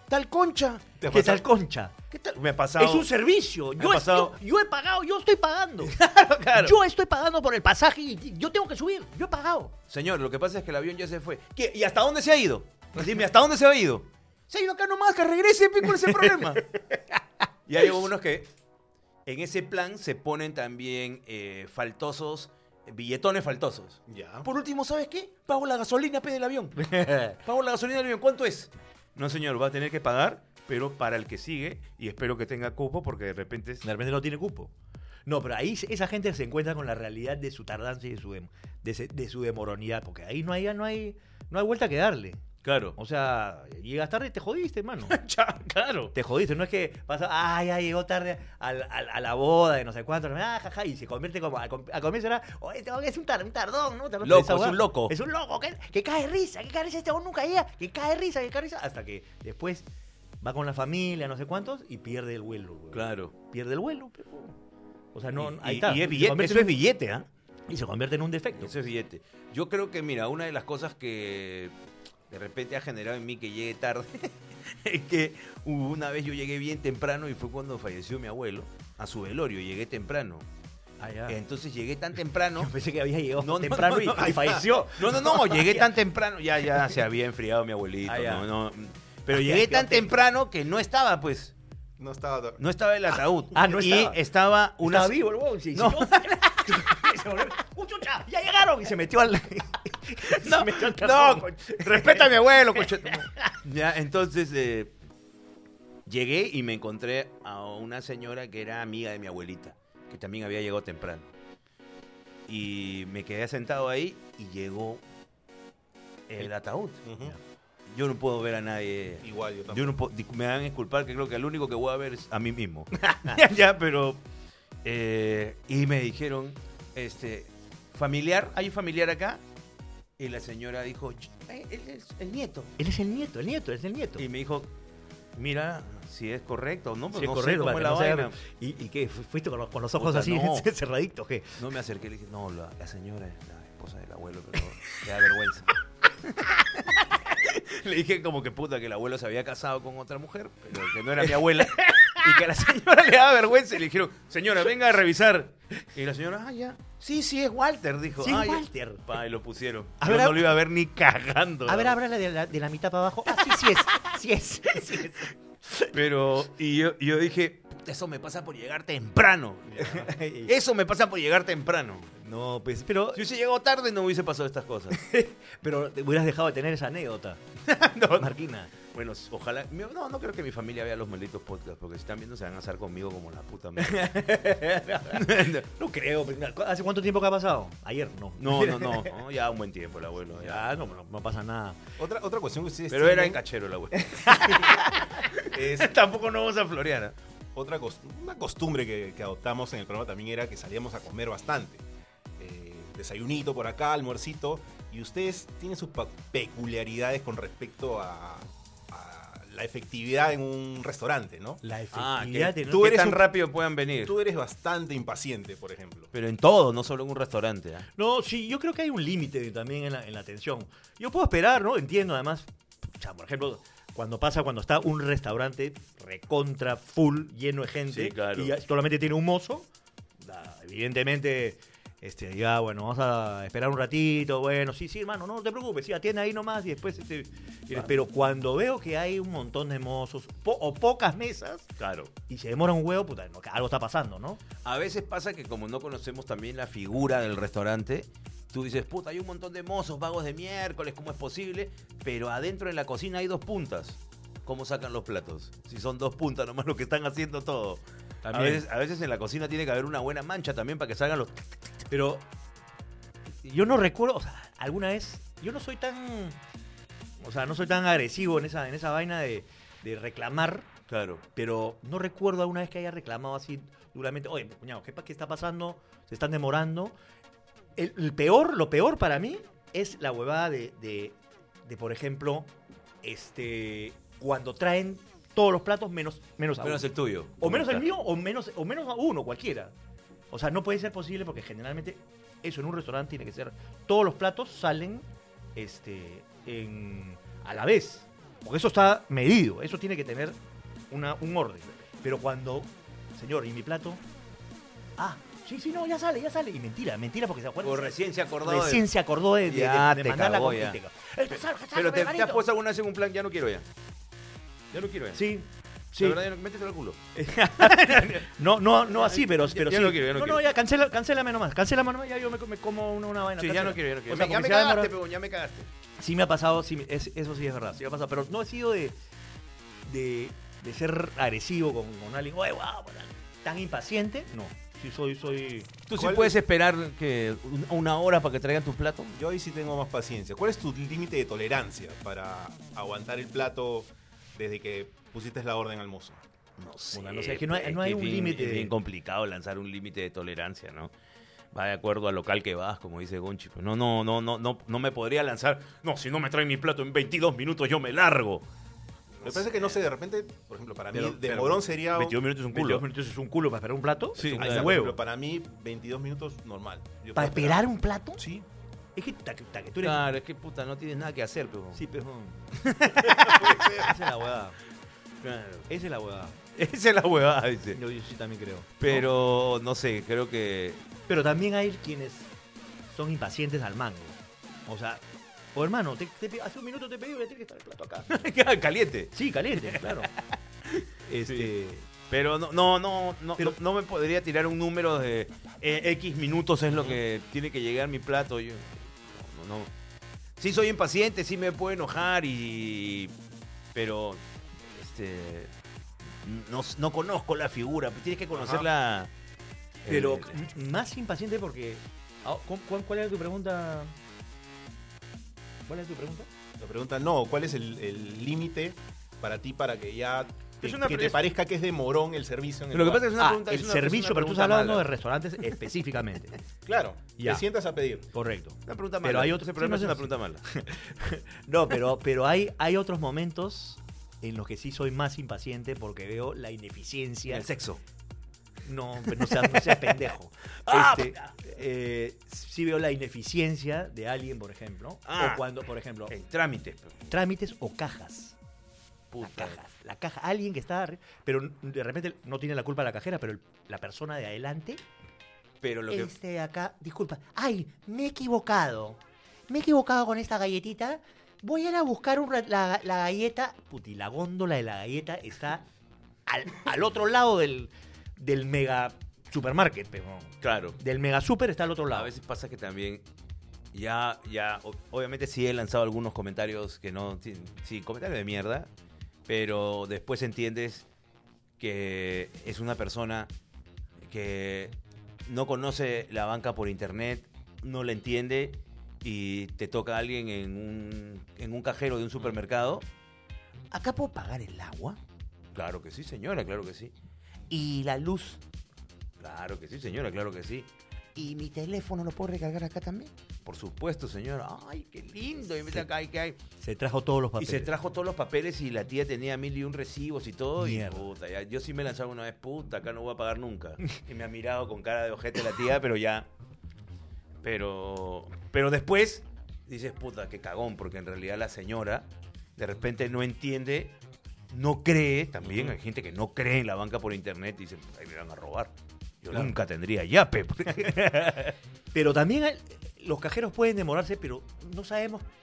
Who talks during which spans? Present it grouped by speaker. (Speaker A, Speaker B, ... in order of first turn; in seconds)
Speaker A: 0.1-0.8, 2.1-3.1, 3.8-4.4, 5.8-6.7, 9.9-16.6, 17.6-18.5, 19.2-33.8, 42.6-43.0, 45.1-46.1, 54.2-55.1, 62.9-63.3, 65.3-67.3, 68.6-71.7, 72.3-80.5, 81.3-82.7, 83.4-91.5, 92.6-95.2, 95.7-97.0, 100.3-104.9, 106.0-111.3, 112.5-115.0, 116.3-117.0, 117.9-124.2, 124.8-129.4, 130.2-132.7, 134.2-134.7, 135.3-138.4, 140.0-140.7, 141.6-162.0, 163.3-163.9, 165.9-172.1, 173.1-175.0, 177.6-184.3, 185.1-185.6, 188.4-190.7, 192.9-197.1, 211.9-214.1, 216.1-217.9, 227.9-228.5, 241.8-242.1, 244.6-261.5, 270.9-271.2, 286.6-287.9, 307.6-308.9, 309.4-310.8, 311.3-313.6, 314.7-315.2, 316.0-317.0, 317.6-318.2, 318.9-320.4, 323.4-325.7, 335.9-339.2, 346.6-350.9, 351.5-358.4, 359.2-359.8, 361.2-362.8, 364.1-364.8, 369.8-371.8, 372.6-373.9, 375.2-375.7, 376.6-377.8, 378.8-380.8, 388.1-391.5, 392.1-399.7, 400.4-403.1, 403.7-405.5, 406.2-409.1, 409.8-410.4, 420.6-421.2, 422.7-424.9, 428.7-430.4, 437.3-437.8, 439.0-440.1, 440.6-441.3, 445.1-445.4, 446.1-447.1, 449.1-449.6, 455.6-456.1, 470.4-470.8, 471.9-473.0, 473.7-478.7, 479.3-480.8, 481.6-483.3, 484.0-484.7, 485.3-492.8, 493.7-495.0, 495.5-496.9, 497.5-498.4, 499.2-506.4, 507.4-516.3, 517.4-523.9, 524.5-531.5
Speaker B: 1.0-1.4, 24.1-24.5, 92.0-92.6, 117.0-117.3, 119.2-120.0, 192.0-193.4, 195.5-195.9, 197.5-201.8, 202.4-211.6, 214.0-216.1, 335.9-336.4, 339.1-346.2, 359.2-362.2, 364.3-367.6, 368.2-368.4, 373.4-373.7, 408.3-408.6, 416.6-423.1, 426.6-428.0
Speaker C: 1.1-1.9, 2.8-5.9, 6.5-9.7, 16.1-16.4, 26.8-27.4, 33.8-34.7, 35.3-42.4, 43.0-45.1, 46.1-59.9, 60.4-64.5, 65.1-66.7, 67.7-68.7, 81.0-81.4, 82.6-85.9, 88.0-88.5, 89.3-90.1, 93.5-94.2, 94.8-103.4, 132.8-134.2, 137.1-141.6, 151.2-152.4, 158.2-159.0, 160.0-160.5, 161.7-165.9, 169.8-170.5, 172.2-173.2, 174.9-177.4, 178.1-178.7, 183.8-189.2, 190.3-191.8, 193.9-195.2, 211.6-213.2, 218.0-229.7, 230.2-241.7, 242.3-244.4, 258.2-258.6, 261.9-262.2, 263.4-266.4, 267.2-270.7, 271.3-276.9, 277.8-282.5, 283.0-289.7, 290.3-300.4, 300.9-304.0, 305.0-312.4, 315.1-316.2, 317.1-324.9, 326.0-329.0, 329.9-335.7, 346.9-348.7, 360.9-361.5, 362.5-365.0, 367.1-368.2, 368.9-370.0, 371.7-374.6, 375.7-376.4, 377.7-379.1, 381.1-382.3, 382.9-385.0, 385.5-388.1, 389.1-390.1, 391.1-391.9, 409.9-413.9, 415.7-416.3, 423.1-426.4, 427.2-427.4, 428.1-437.5, 438.6-446.1, 447.1-448.4, 449.2-454.8, 455.9-465.6, 466.3-472.1, 506.6-507.7, 510.6-511.1, 531.9-535.2